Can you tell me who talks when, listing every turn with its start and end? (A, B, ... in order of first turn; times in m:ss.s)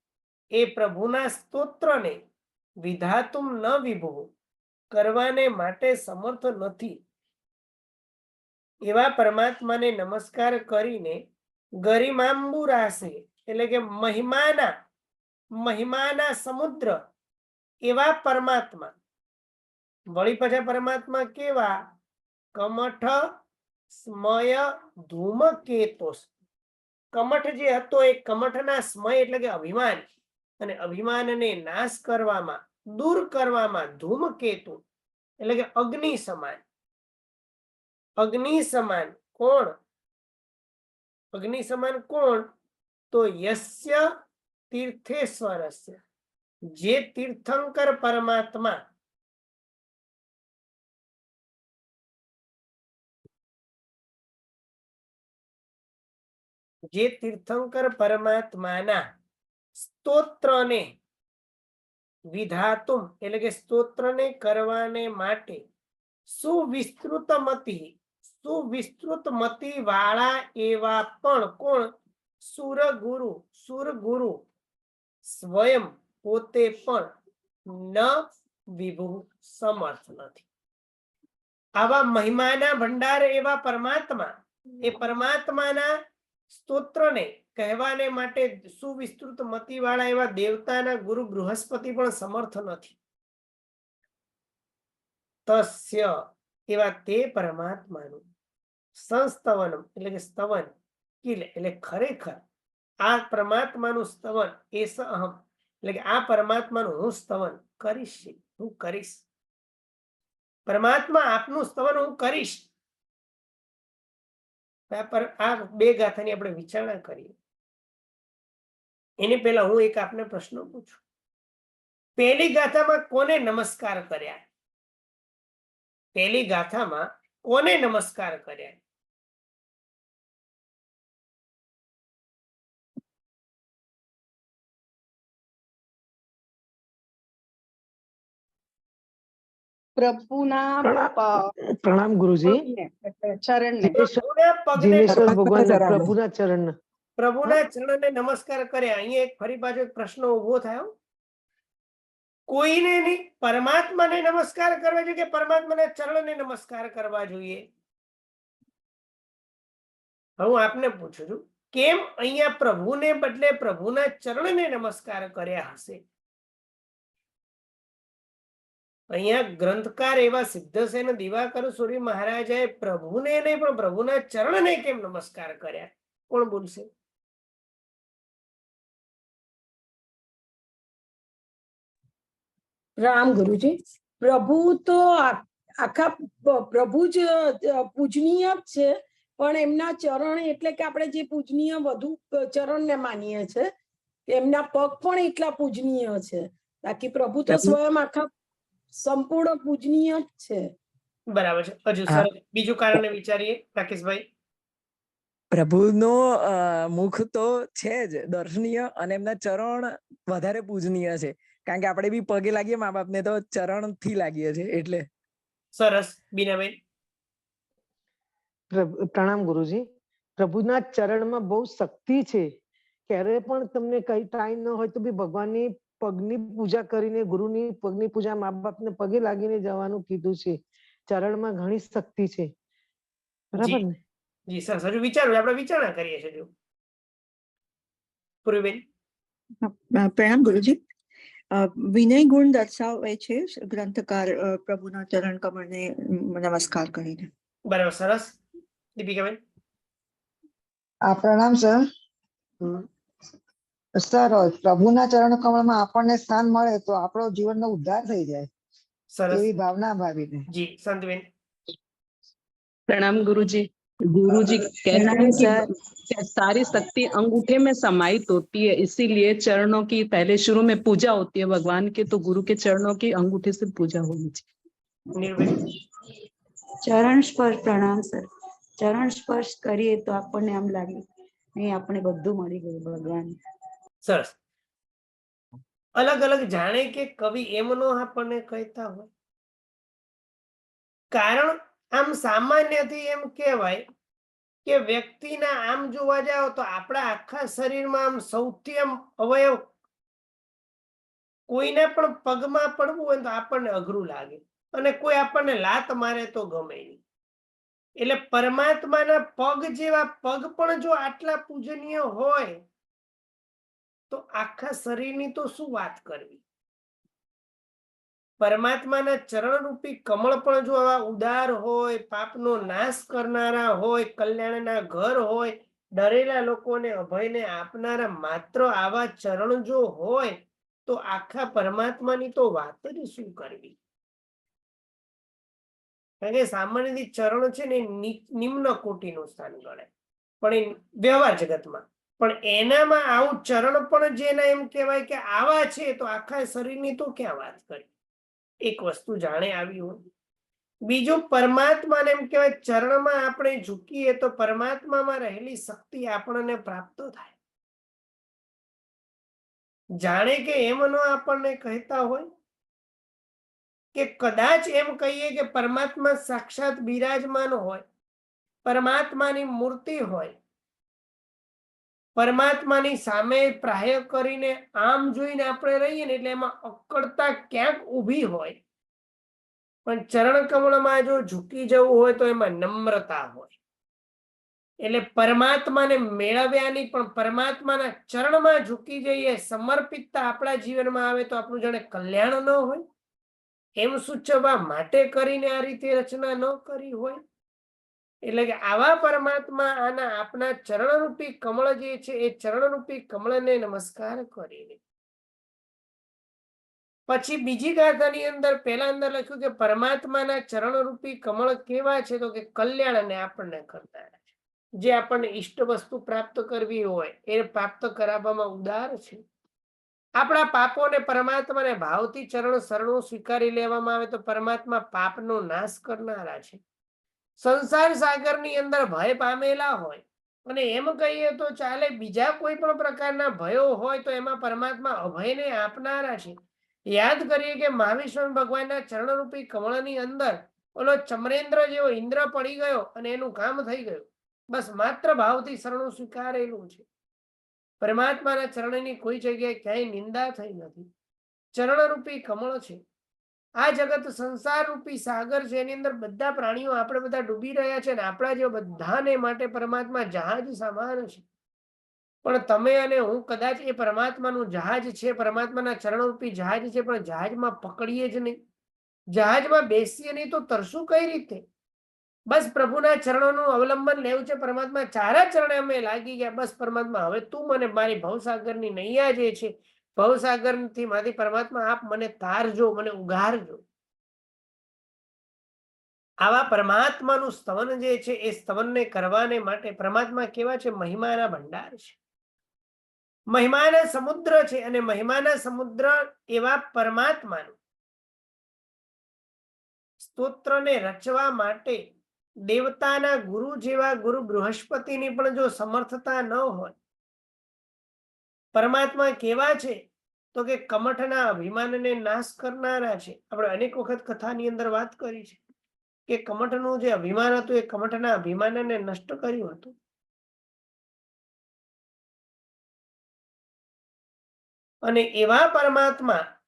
0:00.5-0:02.2 A
0:02.8-0:04.3 A
0:04.9-0:07.0 A
0:08.8-0:11.2 A
0:11.8-0:14.7 A
0:15.6-0:17.0 A
0:17.8-0:18.9 A
0:20.1-0:21.7 A
0:22.6-0:23.2 A
0:24.0-0:26.3 A
0:27.1-0:30.0 A
0:30.6-0:34.8 A
0:35.4-0:36.6 A
0:38.2-0:39.7 A
0:41.3-0:42.5 A
0:43.1-0:44.0 A
0:44.7-0:46.0 A
0:46.7-0:48.8 A
0:56.9-0:59.0 A
0:59.8-1:00.9 A
1:02.3-1:05.6 A
1:06.3-1:11.9 A
1:12.4-1:14.4 A
1:15.3-1:17.1 A
1:17.7-1:20.4 A
1:21.8-1:24.3 A
1:24.8-1:25.9 A
1:26.5-1:33.0 A
1:35.5-1:36.2 A
1:36.7-1:38.2 A
1:39.0-1:40.7 A
1:41.2-1:42.4 A
1:43.0-1:49.2 A
1:50.7-1:52.6 A
1:54.9-1:57.3 A
1:59.2-2:01.0 A
2:02.2-2:04.4 A
2:06.2-2:08.8 A
2:20.0-2:21.5 B
2:20.8-2:22.6 C
2:23.5-2:24.0 B
2:23.8-2:24.2 C
2:24.2-2:25.3 A
2:24.8-2:26.7 C
2:25.0-2:26.1 D
2:27.2-2:30.9 A
2:32.5-2:37.6 A
2:40.4-2:46.0 A
2:49.1-2:56.9 A
3:03.0-3:13.7 E
3:14.3-3:18.3 E
3:17.5-3:17.8 D
3:18.9-3:20.7 E
3:21.3-3:24.2 A
3:25.5-3:35.0 D
3:35.8-3:36.8 A
3:38.7-3:39.8 C
3:40.4-3:42.5 C
3:43.1-3:50.6 C
3:51.1-3:52.5 C
3:53.5-3:54.0 C
3:54.5-3:56.5 A
3:58.4-3:58.8 A
3:59.6-4:00.8 B
4:01.5-4:07.3 B
4:07.7-4:08.4 A
4:09.0-4:09.4 A
4:11.1-4:11.8 F
4:14.0-4:18.5 F
4:19.1-4:19.5 A
4:19.3-4:20.4 F
4:20.5-4:21.3 A
4:22.9-4:34.4 G
4:24.9-4:25.4 H
4:35.2-4:35.5 A
4:36.8-4:38.3 H
4:38.8-4:41.0 H
4:41.6-4:43.3 H
4:44.0-4:44.3 A
4:46.0-4:49.1 A
4:51.1-4:53.8 A
4:54.6-4:59.6 A
5:01.5-5:07.0 A
5:08.0-5:12.6 A
5:14.1-5:16.4 A
5:18.4-5:33.8 A
5:36.2-5:39.9 A
5:40.4-5:47.8 A
5:48.6-5:50.0 A
5:50.9-5:57.3 A
6:00.0-6:02.3 A
6:03.9-6:07.8 A
6:08.6-6:10.3 A
6:12.2-6:18.6 A
6:19.8-6:23.5 A
6:24.8-6:32.8 A
6:33.8-6:37.2 A
6:38.2-6:44.8 A
6:47.1-6:54.2 A
6:54.8-6:59.2 A
7:00.2-7:06.6 A
7:07.4-7:16.3 A
7:16.9-7:26.8 A
7:27.8-7:30.9 A
7:31.5-7:32.8 A
7:33.6-7:41.2 A
7:42.2-7:48.4 A
7:49.1-7:51.4 A
7:52.3-8:03.6 A
8:06.2-8:12.0 A
8:13.3-8:17.6 A
8:20.0-8:21.8 A
8:22.5-8:26.7 A
8:28.5-8:29.8 A
8:30.3-8:35.4 A
8:36.1-8:39.7 A
8:44.8-8:46.2 A